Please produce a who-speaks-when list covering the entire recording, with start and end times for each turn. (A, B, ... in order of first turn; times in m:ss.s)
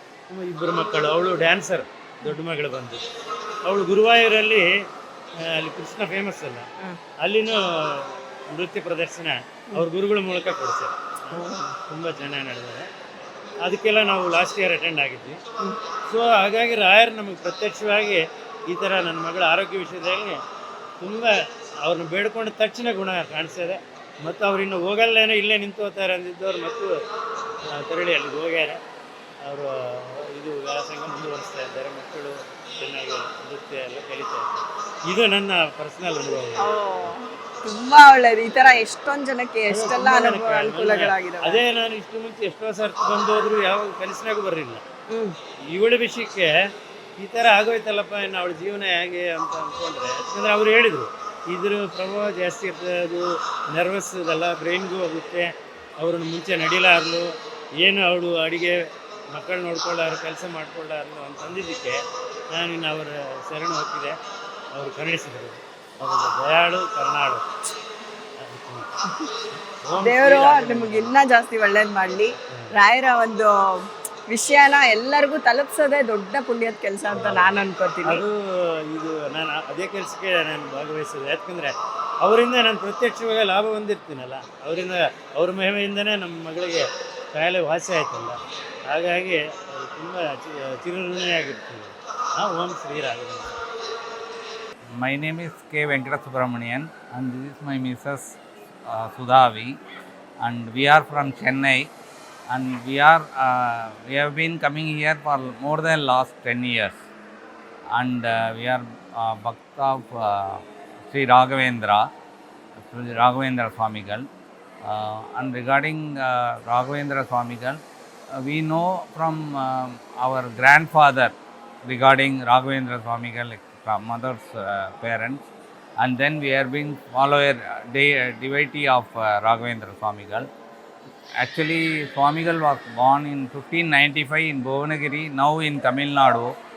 0:00.3-0:03.0 A
0:03.6-0:04.7 A
0:05.6-0:06.7 A
0:07.2-0:12.9 A
0:11.3-0:11.8 B
0:13.6-0:15.4 A
0:16.1-0:20.4 A
0:21.0-0:21.3 A
0:21.8-0:26.9 A
0:27.8-0:28.8 A
0:29.4-0:36.7 A
0:36.6-0:41.6 B
0:39.7-0:44.8 A
0:45.1-0:45.4 B
0:45.7-0:46.5 A
0:47.2-0:55.5 A
0:56.0-0:57.3 A
0:57.8-0:58.8 A
0:59.3-1:02.0 A
1:02.5-1:04.2 A
1:04.8-1:07.4 A
1:08.4-1:09.0 A
1:09.8-1:11.1 A
1:10.0-1:13.5 B
1:14.3-1:18.2 B
1:17.1-1:18.4 A
1:18.9-1:33.6 A
1:35.0-1:39.8 C
1:40.4-1:41.9 C
1:42.5-1:47.0 C
1:47.9-1:52.1 C
1:52.8-1:54.2 C
1:54.8-1:57.8 C
1:58.3-2:05.4 C
2:06.0-2:10.5 C
2:11.4-2:16.5 C